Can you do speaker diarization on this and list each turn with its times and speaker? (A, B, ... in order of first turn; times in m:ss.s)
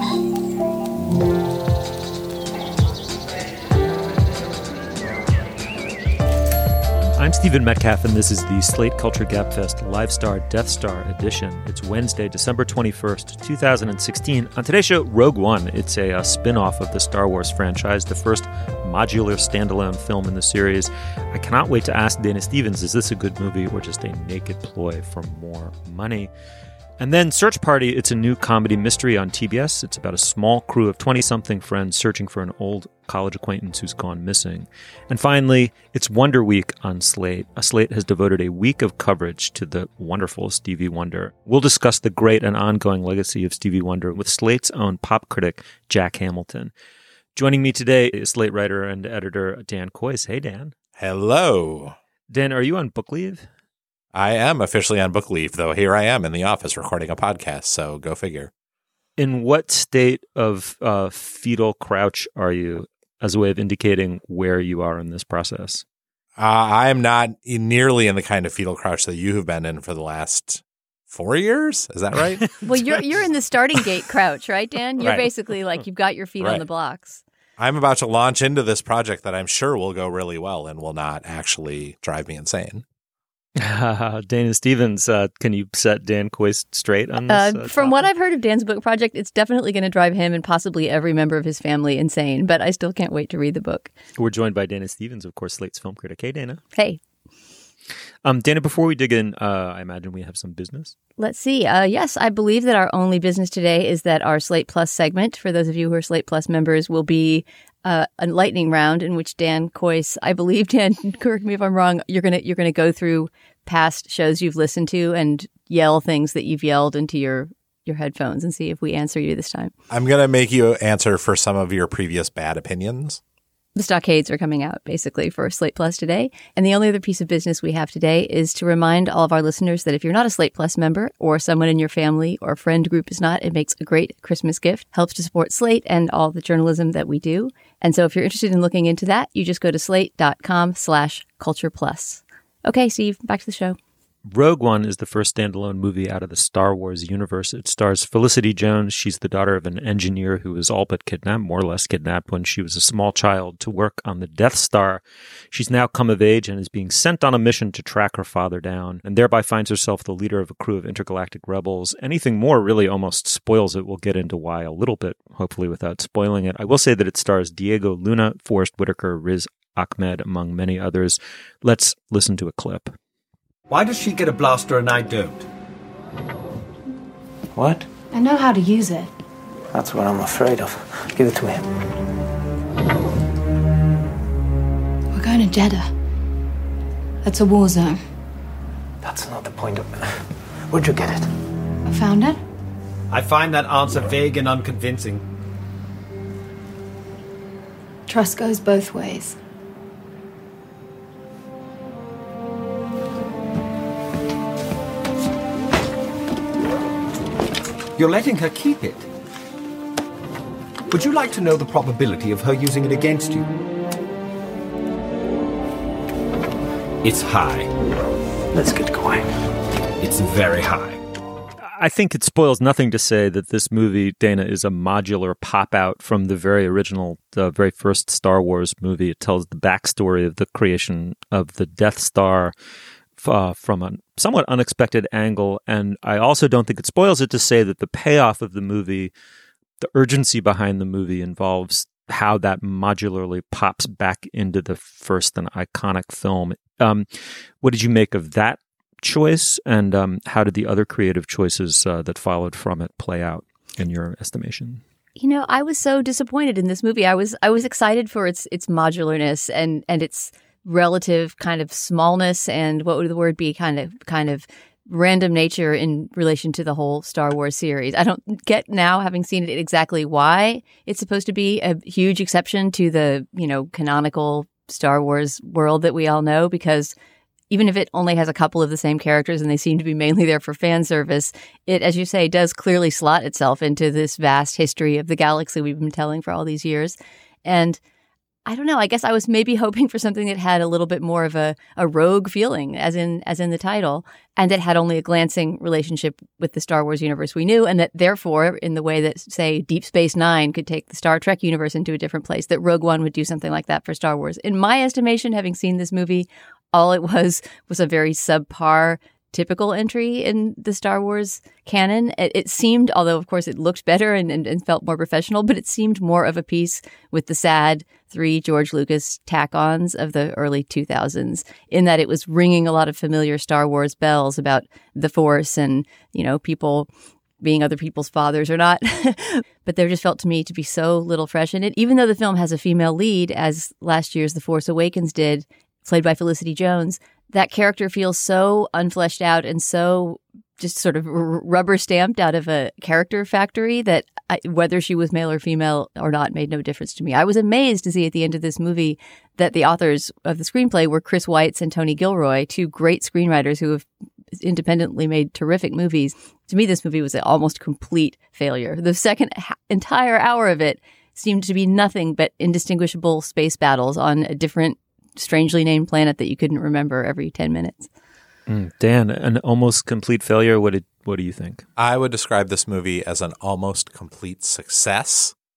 0:07.2-0:26.3 A
0:27.0-0:46.7 A
0:47.4-0:50.7 A
0:51.0-0:51.9 B
0:52.3-0:53.5 A
0:54.1-0:58.5 B
0:59.2-1:05.8 A
1:06.4-1:12.6 B
1:12.6-1:17.2 C
1:15.0-1:15.2 B
1:16.4-1:16.6 B
1:17.6-1:22.8 B
1:23.6-1:28.0 A
1:27.2-1:33.9 C
1:34.2-1:36.6 A
1:38.2-1:40.9 A
1:41.2-1:59.7 C
1:59.9-2:03.2 B
2:03.8-2:23.8 C
2:24.3-2:52.9 A
2:53.7-2:55.4 D
2:57.5-2:57.8 E
2:58.1-2:59.1 F
2:59.7-3:01.7 E
3:05.1-3:05.9 F
3:07.2-3:08.0 F
3:09.0-3:11.3 E
3:11.8-3:12.4 F
3:13.1-3:15.2 D
3:18.1-3:19.3 F
3:27.9-3:29.1 D
3:30.9-3:33.5 D
3:37.0-3:37.7 D
3:38.5-3:39.3 E
3:40.0-3:41.0 D
3:41.7-3:52.5 A
3:53.2-3:59.1 A
3:59.8-4:07.1 A
4:07.6-4:14.8 A
4:15.2-4:36.9 C
4:37.5-4:47.8 C
4:48.4-5:26.9 C
5:27.4-6:07.9 C
6:08.5-6:11.6 A
6:11.8-6:15.3 B